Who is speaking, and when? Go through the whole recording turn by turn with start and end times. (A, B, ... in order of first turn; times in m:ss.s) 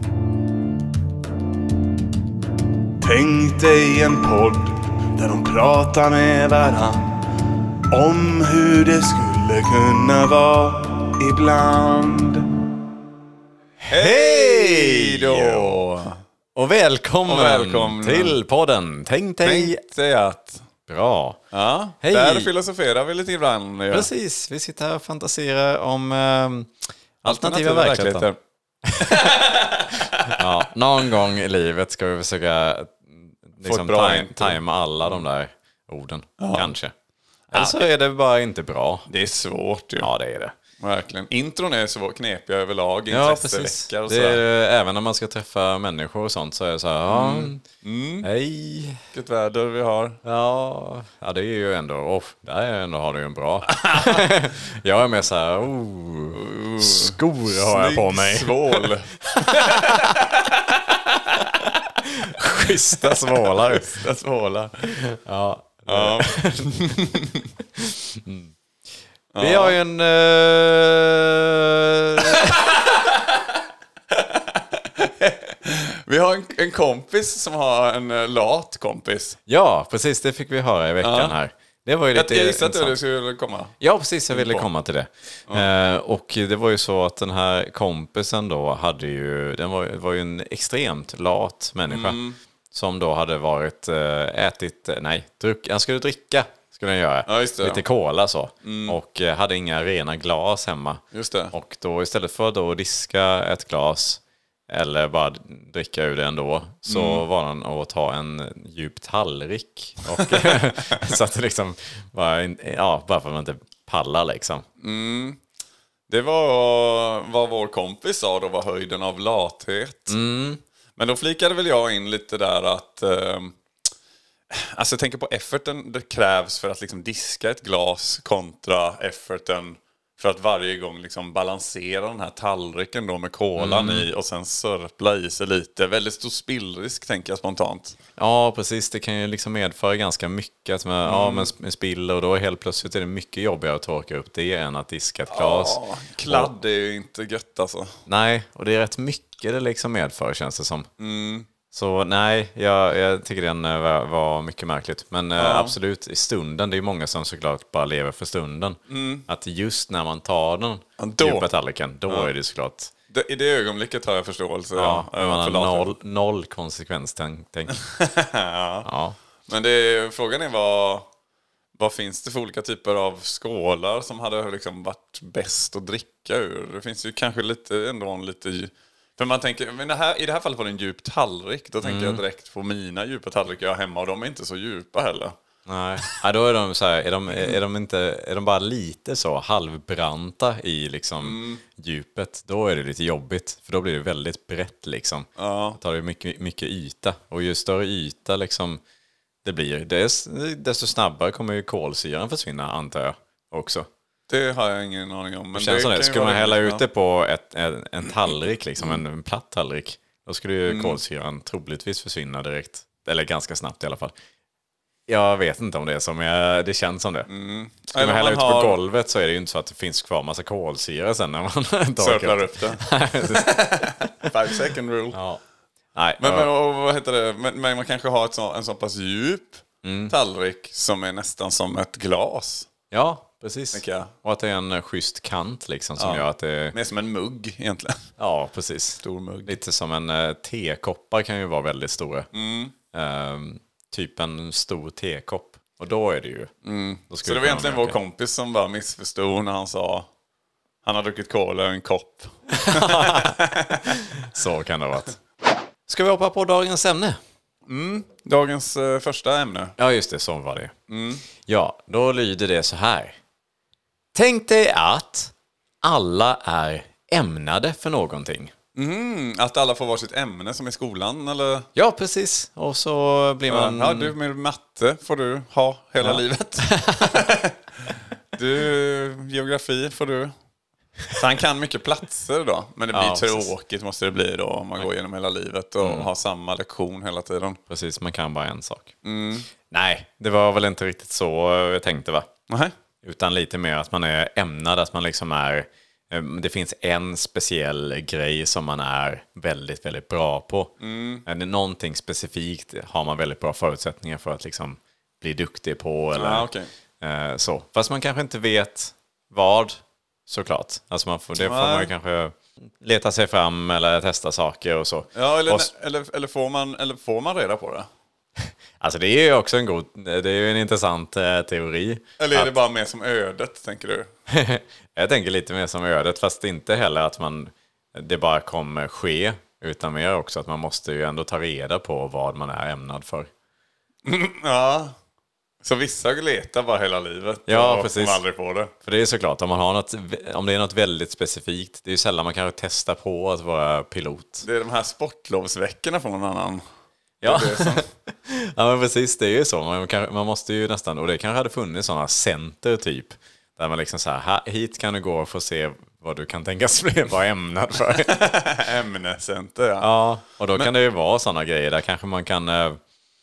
0:03.0-0:07.2 A
0:07.9-0:12.5 A
0:13.8-0:15.8 B
0:13.9-0:16.2 C
0:16.6-0:19.8 B
0:17.3-0:18.4 C
0:19.4-0:20.7 C
0:20.9-0:21.4 B
0:21.5-0:24.1 C
0:22.0-0:22.5 B
0:23.9-0:28.3 B
0:27.2-0:28.4 C
0:28.8-0:29.4 B
0:29.0-0:30.4 C
0:30.3-0:36.9 B
0:33.6-0:34.6 C
0:36.4-0:36.7 C
0:37.5-0:39.1 B
0:39.1-0:40.1 C
0:40.0-0:40.6 B
0:40.8-0:44.4 C
0:43.1-0:47.6 B
0:47.1-0:48.3 C
0:48.2-0:49.0 B
0:49.1-0:50.2 C
0:50.2-1:00.3 B
0:53.7-0:54.2 C
0:56.4-1:01.8 C
1:02.0-1:04.0 B
1:02.9-1:04.8 C
1:05.0-1:07.0 B
1:05.9-1:07.4 C
1:07.8-1:08.6 B
1:09.3-1:09.8 C
1:09.4-1:12.7 B
1:14.1-1:19.4 C
1:19.5-1:23.0 B
1:21.0-1:21.4 C
1:22.1-1:23.8 C
1:23.8-1:54.7 B
1:24.3-1:24.7 C
1:31.9-1:32.4 C
1:37.3-1:37.8 C
1:38.6-1:39.0 C
1:41.1-1:41.5 C
1:46.9-1:47.2 C
1:50.1-1:51.0 C
1:54.8-1:55.4 C
1:56.1-2:00.2 C
2:00.1-2:00.6 B
2:01.0-2:03.6 C
2:04.5-2:18.0 C
2:13.6-2:14.1 B
2:18.2-2:26.5 B
2:21.0-2:21.5 C
2:25.3-2:28.0 C
2:28.1-2:30.9 B
2:31.0-2:31.5 C
2:31.7-2:42.9 B
2:35.4-2:35.8 C
2:38.9-2:39.3 C
2:41.0-2:41.5 C
2:43.1-2:45.9 C
2:44.8-2:47.8 B
2:47.8-2:48.9 C
2:48.8-2:49.2 B
2:49.5-2:51.1 C
2:51.8-3:05.4 C
3:01.8-3:02.2 B
3:05.7-3:18.8 B
3:07.3-3:07.6 C
3:11.2-3:11.6 C
3:15.4-3:15.8 C
3:19.4-3:23.9 B
3:24.3-3:26.8 C
3:25.6-3:34.1 B
3:30.7-3:31.0 C
3:35.1-3:37.3 B
3:37.3-3:38.8 C
3:37.9-3:44.3 B
3:42.0-3:45.2 C
3:45.1-3:45.4 B
3:46.0-3:46.5 B
3:46.2-3:52.7 C
3:49.8-3:50.2 B
3:52.9-3:56.8 B
3:53.7-3:54.1 C
3:56.0-3:58.1 C
3:58.2-4:02.3 B
3:59.0-3:59.5 C
4:02.3-4:02.7 C
4:02.9-4:06.5 B
4:06.6-4:10.1 C
4:07.1-4:08.0 B
4:10.8-4:13.8 C
4:12.5-4:15.2 B
4:15.9-4:17.2 B
4:17.7-4:19.8 C
4:19.8-4:20.7 B
4:20.9-4:21.2 C
4:21.4-4:23.2 B
4:24.1-4:28.5 B
4:28.8-4:31.7 C
4:31.8-4:34.2 B
4:33.5-4:40.3 C
4:36.0-4:37.2 B
4:41.2-4:47.6 C
4:42.9-4:43.5 B
4:45.8-4:46.1 B
4:47.7-4:49.0 B
4:49.0-4:49.5 C
4:49.7-4:52.3 B
4:52.5-4:52.7 C
4:53.0-5:00.7 B
5:00.8-5:01.2 C
5:01.3-5:06.5 B
5:06.1-5:06.7 C
5:07.0-5:15.7 B
5:11.4-5:11.9 C
5:15.2-5:17.9 C
5:18.5-5:22.5 B
5:22.2-5:24.1 C
5:24.3-5:33.3 B
5:34.0-5:35.0 C
5:35.6-5:38.7 C
5:37.5-5:38.2 B
5:38.8-5:44.5 B
5:44.4-5:46.6 C
5:47.2-5:47.9 C
5:47.2-5:58.2 B
5:58.0-5:59.9 C
5:59.8-6:02.8 B